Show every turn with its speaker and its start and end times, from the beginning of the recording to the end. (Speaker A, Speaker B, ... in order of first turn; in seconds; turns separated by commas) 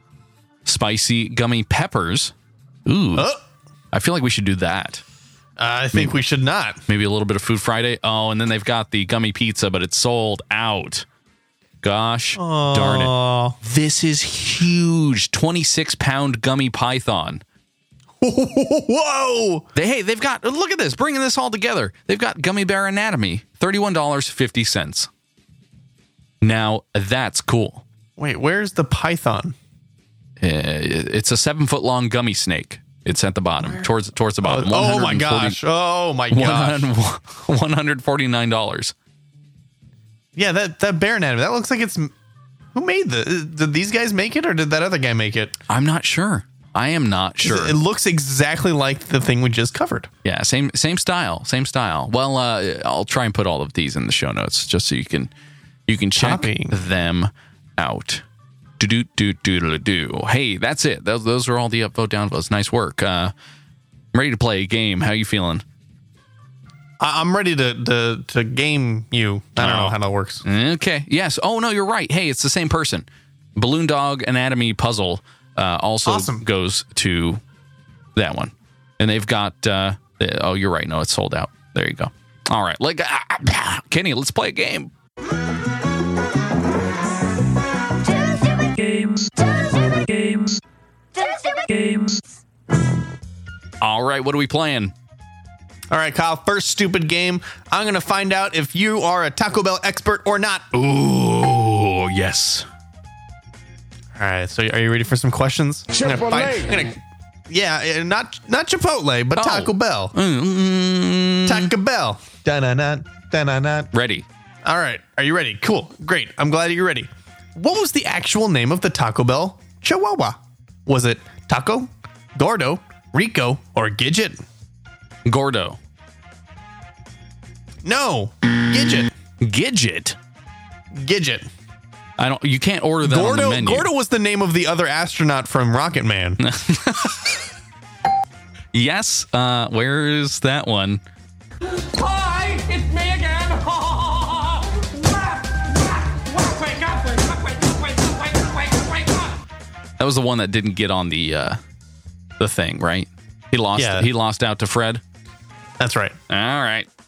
Speaker A: 0.7-2.3, Speaker A: 2.9-3.3, Speaker B: 3.2-3.4, Speaker A: 3.9-5.0, Speaker B: 5.6-6.8, Speaker A: 6.9-11.1, Speaker A: 11.8-17.4, Speaker B: 12.4-13.6, Speaker B: 18.2-19.7, Speaker A: 19.8-25.1, Speaker A: 26.4-27.9, Speaker B: 28.2-29.6, Speaker A: 30.4-35.6, Speaker B: 34.4-36.9, Speaker A: 36.3-38.9, Speaker B: 40.4-42.1, Speaker B: 42.7-45.6, Speaker A: 45.7-47.8, Speaker B: 47.4-50.1, Speaker A: 50.2-55.3, Speaker A: 55.9-58.2, Speaker B: 56.2-56.8, Speaker A: 58.8-63.3, Speaker A: 64.1-65.6, Speaker B: 67.0-70.4, Speaker A: 69.6-77.4, Speaker B: 76.0-76.5, Speaker A: 78.2-84.9, Speaker C: 88.1-90.6, Speaker C: 91.2-92.2, Speaker A: 93.8-94.9, Speaker B: 95.9-100.7, Speaker A: 100.7-102.7, Speaker B: 104.2-107.0, Speaker B: 107.5-110.2, Speaker A: 109.3-111.7, Speaker B: 111.5-113.9, Speaker A: 113.9-114.2, Speaker B: 114.7-124.4, Speaker A: 125.3-125.8, Speaker B: 127.8-129.1, Speaker A: 129.4-130.2, Speaker B: 130.9-131.5, Speaker A: 132.2-133.9, Speaker B: 133.0-136.4, Speaker A: 136.4-137.3, Speaker A: 138.7-141.0, Speaker C: 141.8-149.3, Speaker A: 150.0-151.6, Speaker A: 152.4-155.0, Speaker B: 153.8-154.1, Speaker B: 155.8-156.2, Speaker A: 156.3-156.9